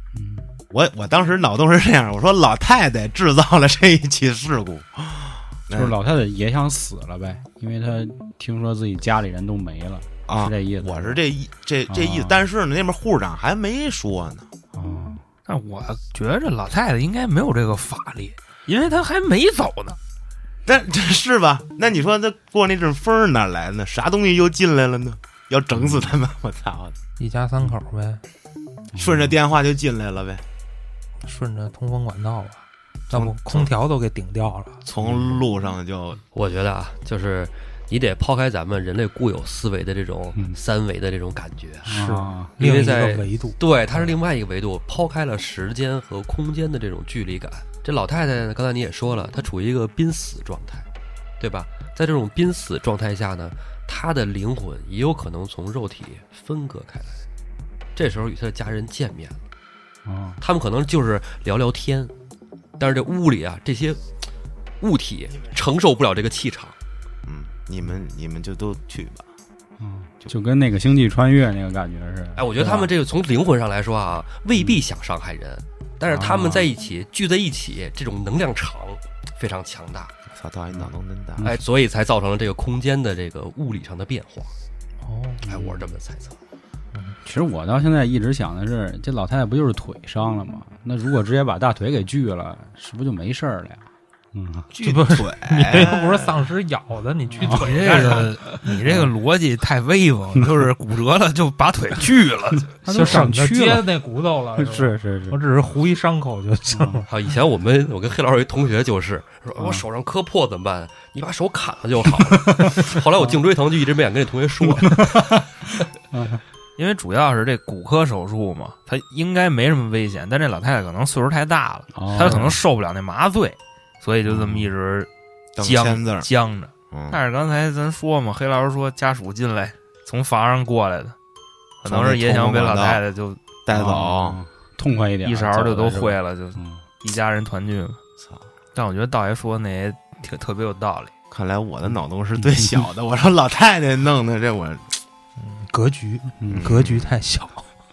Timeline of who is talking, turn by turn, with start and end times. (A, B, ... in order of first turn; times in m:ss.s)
0:00.1-0:00.5 A
0:00.7-0:06.0 B
0:05.7-0:11.2 A
0:10.3-0:14.5 B
0:11.9-0:12.4 A
0:14.7-0:15.2 A
0:15.5-0:20.0 C
0:20.6-0:27.0 B
0:27.2-0:28.2 D
0:28.9-0:29.3 A
0:28.9-0:30.4 B
0:31.2-0:34.8 D
0:33.1-0:33.7 B
0:34.8-0:36.2 B
0:35.0-0:35.4 A
0:36.3-0:42.0 E
0:41.8-0:42.6 A
0:41.8-0:43.6 D
0:42.6-0:50.9 E
0:51.4-0:57.2 E
0:57.9-0:59.4 E
1:00.0-1:00.4 A
1:00.4-1:02.1 E
1:02.8-1:04.0 E
1:04.8-1:06.8 E
1:07.2-1:09.3 B
1:09.8-1:12.9 A
1:12.4-1:20.1 E
1:16.1-1:16.7 A
1:20.3-1:21.5 B
1:21.4-1:21.6 A
1:21.4-1:24.5 E
1:25.0-1:25.4 D
1:25.4-1:25.8 A
1:25.5-1:26.4 E
1:27.2-1:34.7 A
1:34.7-1:36.3 B
1:34.8-1:38.4 D
1:37.4-1:37.7 A
1:37.5-1:43.3 C
1:42.8-1:43.8 A
1:42.9-1:47.1 D
1:44.6-1:45.4 A
1:46.7-1:47.0 A
1:47.1-1:55.3 E
1:52.5-1:53.3 A
1:54.8-1:55.4 A
1:56.1-1:56.4 A
1:56.8-2:11.2 C
2:01.9-2:02.6 A
2:04.3-2:04.7 A
2:05.6-2:06.3 B
2:06.9-2:07.2 B
2:11.8-2:13.4 C
2:11.8-2:13.0 B
2:13.6-2:14.4 B
2:13.7-2:16.8 A
2:15.2-2:18.0 C
2:18.7-2:21.1 C
2:21.3-2:24.9 B
2:25.4-2:27.7 D
2:26.5-2:27.1 B